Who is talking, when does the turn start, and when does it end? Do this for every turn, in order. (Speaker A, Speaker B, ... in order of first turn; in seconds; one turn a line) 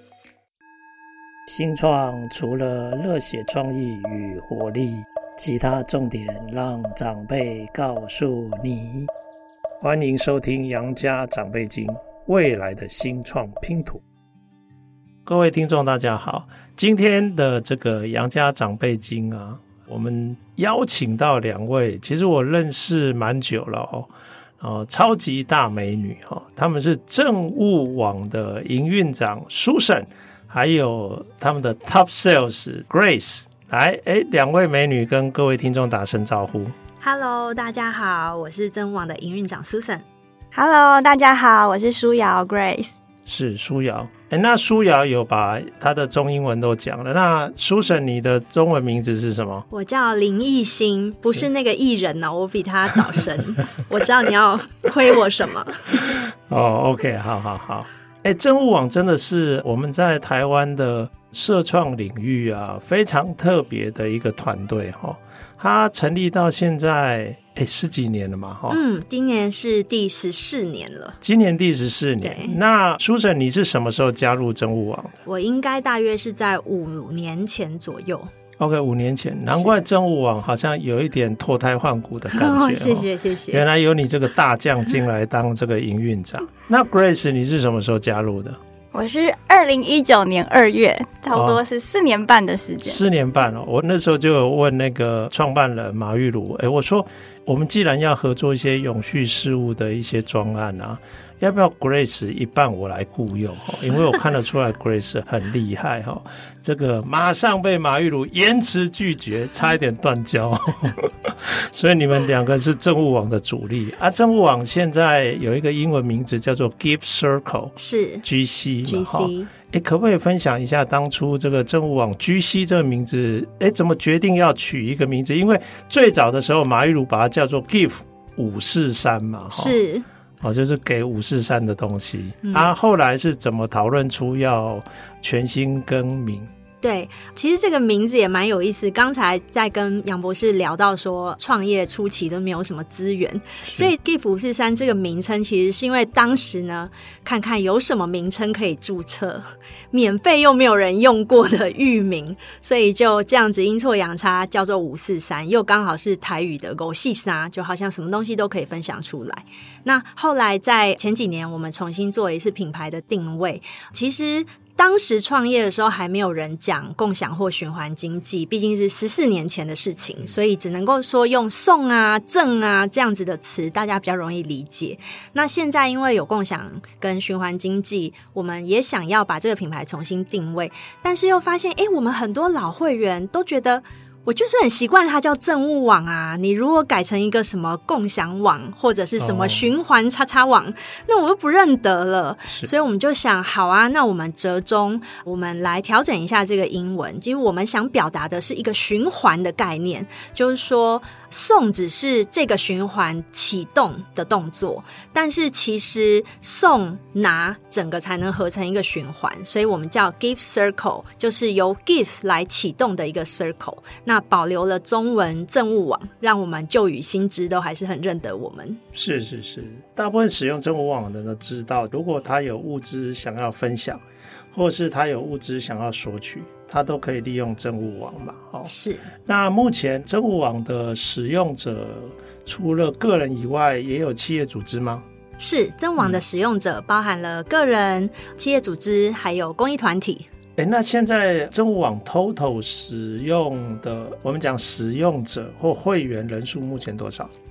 Speaker A: 1.5-9.1
Speaker A: 9.8-14.0
Speaker A: 15.2-24.1
Speaker A: 24.6-36.7
Speaker B: 37.0-40.0
Speaker C: 40.5-42.9
Speaker A: 43.3-49.6
Speaker B: 49.7-55.8
Speaker A: 55.9-68.8
Speaker B: 68.7-71.2
Speaker A: 71.2-75.2
Speaker B: 72.2-72.5
Speaker B: 75.2-78.3
Speaker A: 78.6-88.6
Speaker B: 82.3-83.6
Speaker C: 88.9-93.0
Speaker A: 91.3-91.6
Speaker A: 92.8-129.8
Speaker B: 117.8-118.2
Speaker B: 118.8-119.5
Speaker B: 129.5-130.0
Speaker A: 130.4-136.5
Speaker B: 132.4-132.7
Speaker B: 136.8-218.8
Speaker A: 143.7-143.9
Speaker A: 189.2-189.7
Speaker A: 218.9-224.0
Speaker A: 224.5-228.7
Speaker B: 228.7-229.1
Speaker A: 229.2-235.0
Speaker B: 235.4-240.3
Speaker A: 240.6-247.3